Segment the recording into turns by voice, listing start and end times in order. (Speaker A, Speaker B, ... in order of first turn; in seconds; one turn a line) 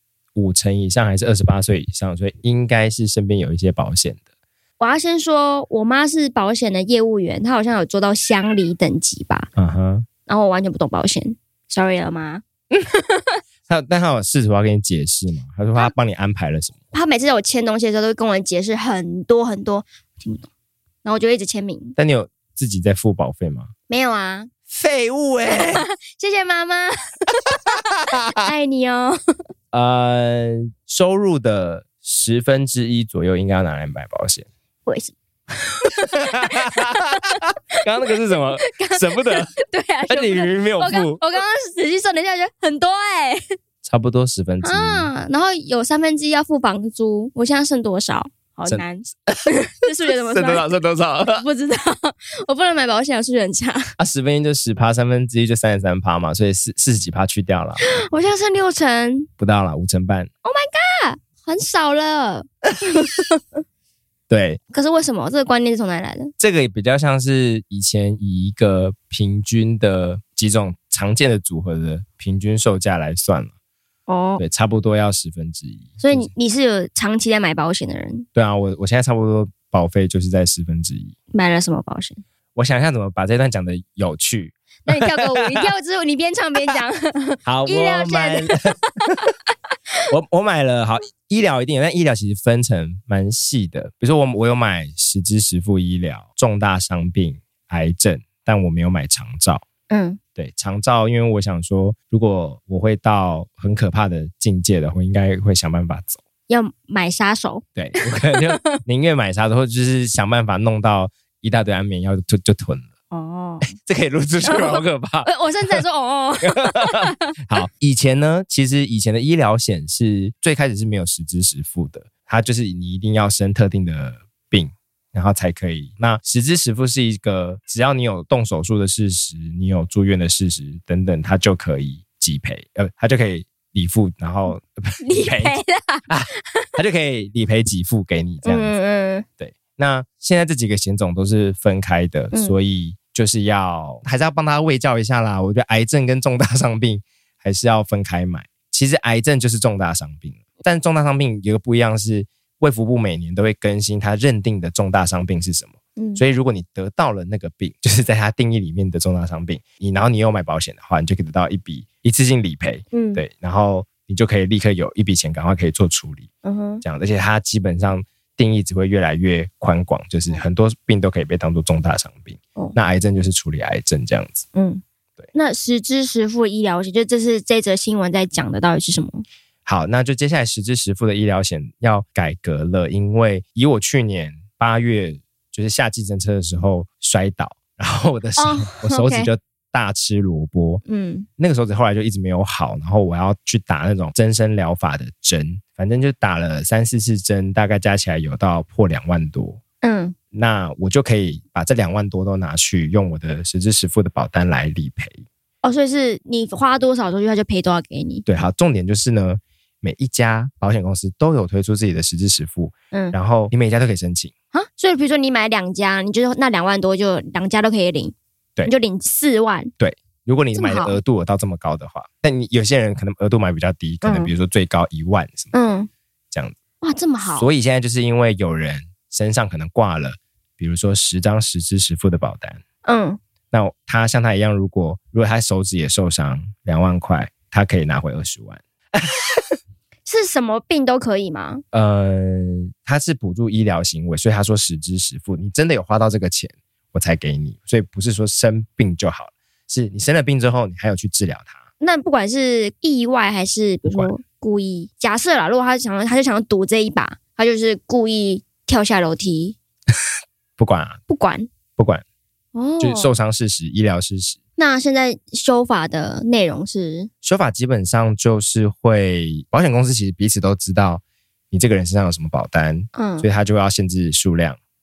Speaker A: 0.3-4.2
Speaker B: 4.8-9.5
Speaker A: 9.6-10.1
Speaker B: 10.2-13.2
Speaker A: 13.7-16.7
Speaker B: 16.9-20.5
Speaker B: 21.0-21.9
Speaker A: 22.0-23.7
Speaker B: 23.9-24.5
Speaker A: 24.7-25.9
Speaker B: 25.5-26.9
Speaker B: 28.3-29.2
Speaker A: 29.7-34.5
Speaker B: 34.9-37.4
Speaker A: 36.3-37.1
Speaker A: 37.8-39.5
Speaker B: 38.6-43.4
Speaker A: 40.1-41.2
Speaker A: 43.8-45.1
Speaker B: 44.6-53.8
Speaker A: 48.6-49.5
Speaker A: 50.1-51.4
Speaker A: 54.0-57.8
Speaker B: 57.8-59.3
Speaker A: 59.4-60.3
Speaker B: 60.4-63.4
Speaker A: 64.3-64.6
Speaker B: 64.7-66.3
Speaker A: 66.4-73.5
Speaker B: 74.1-74.4
Speaker A: 74.4-76.3
Speaker B: 76.0-78.2
Speaker A: 78.3-81.1
Speaker B: 81.3-82.2
Speaker A: 82.5-85.2
Speaker B: 84.8-89.1
Speaker A: 87.5-88.7
Speaker A: 90.1-99.6
Speaker B: 99.9-100.2
Speaker A: 100.4-106.2
Speaker B: 106.5-108.8
Speaker A: 107.8-112.9
Speaker B: 113.1-113.7
Speaker A: 113.7-115.8
Speaker B: 114.4-117.3
Speaker A: 116.4-138.7
Speaker B: 135.0-136.7
Speaker B: 138.4-139.2
Speaker A: 139.4-166.3
Speaker B: 155.9-156.2
Speaker B: 162.9-163.2
Speaker B: 166.4-166.8
Speaker A: 166.8-174.4
Speaker B: 174.5-174.8
Speaker B: 175.3-179.2
Speaker A: 179.6-190.8
Speaker B: 188.4-189.3
Speaker B: 190.9-191.3
Speaker A: 191.4-199.6
Speaker B: 199.8-200.1
Speaker A: 200.3-205.2
Speaker B: 205.6-208.2
Speaker A: 208.2-214.3
Speaker B: 214.5-219.7
Speaker A: 219.8-225.5
Speaker B: 220.5-221.0
Speaker B: 224.0-224.3
Speaker B: 225.5-225.9
Speaker B: 226.8-227.5
Speaker A: 227.2-232.6
Speaker B: 232.8-233.2
Speaker A: 233.5-239.2
Speaker B: 240.1-241.6
Speaker A: 241.7-251.6
Speaker B: 251.8-259.6
Speaker A: 260.6-261.0
Speaker B: 261.1-261.5
Speaker A: 261.8-262.0
Speaker B: 262.5-263.1
Speaker A: 262.8-264.4
Speaker B: 264.6-267.1
Speaker A: 267.2-274.6
Speaker B: 272.9-273.2